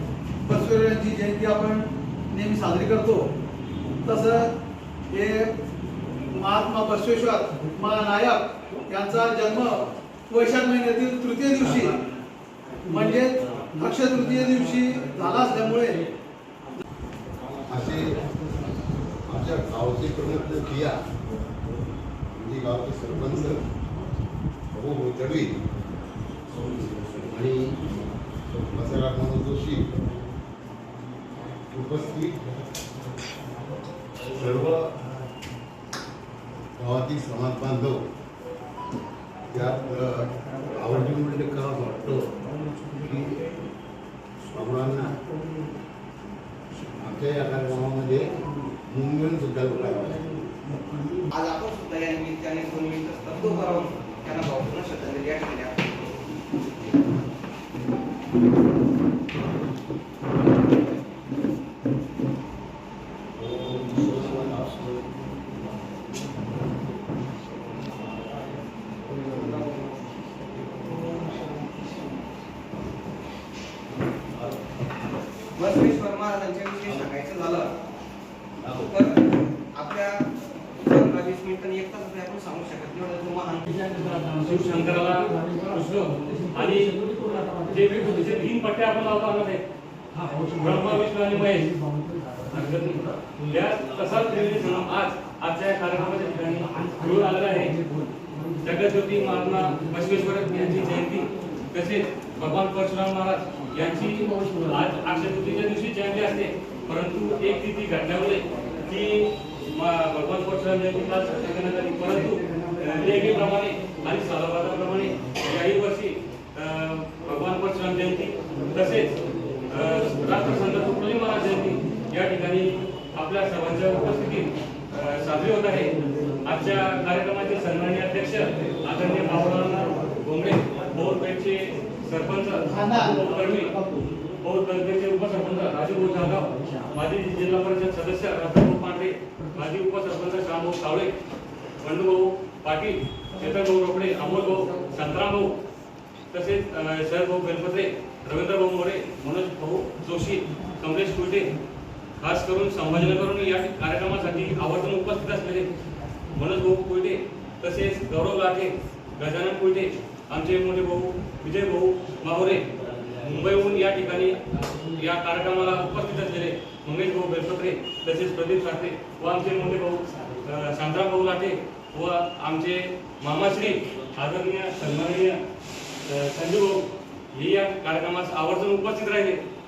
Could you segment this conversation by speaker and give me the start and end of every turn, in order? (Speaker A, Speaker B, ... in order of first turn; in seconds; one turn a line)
Speaker A: 0.5-3.3
Speaker A: 4.0-4.5
Speaker A: 5.1-5.5
Speaker A: 6.3-12.0
Speaker A: 12.9-16.0
Speaker B: 17.7-18.2
Speaker B: 19.3-21.0
Speaker B: 22.3-23.6
Speaker B: 24.7-25.5
Speaker B: 26.8-27.7
Speaker B: 28.5-29.9
Speaker B: 31.7-32.4
Speaker B: 34.3-34.9
Speaker B: 36.8-38.0
Speaker B: 39.5-42.2
Speaker B: 42.9-43.4
Speaker B: 44.5-45.1
Speaker B: 47.0-48.2
Speaker B: 48.9-50.2
Speaker C: 51.3-56.1
Speaker B: 63.4-64.9
Speaker C: 69.1-70.1
Speaker C: 70.7-71.9
Speaker C: 75.5-77.7
Speaker C: 78.7-83.7
Speaker D: 84.1-89.6
Speaker D: 90.3-91.7
Speaker D: 92.5-97.8
Speaker D: 98.6-119.1
Speaker D: 119.7-125.9
Speaker D: 126.4-133.7
Speaker A: 132.7-133.2
Speaker A: 133.7-134.0
Speaker D: 134.4-141.1
Speaker D: 141.8-145.5
Speaker D: 146.3-151.5
Speaker D: 152.2-155.7
Speaker D: 156.3-162.7
Speaker D: 163.2-164.4
Speaker D: 164.9-175.4
Speaker D: 176.1-179.4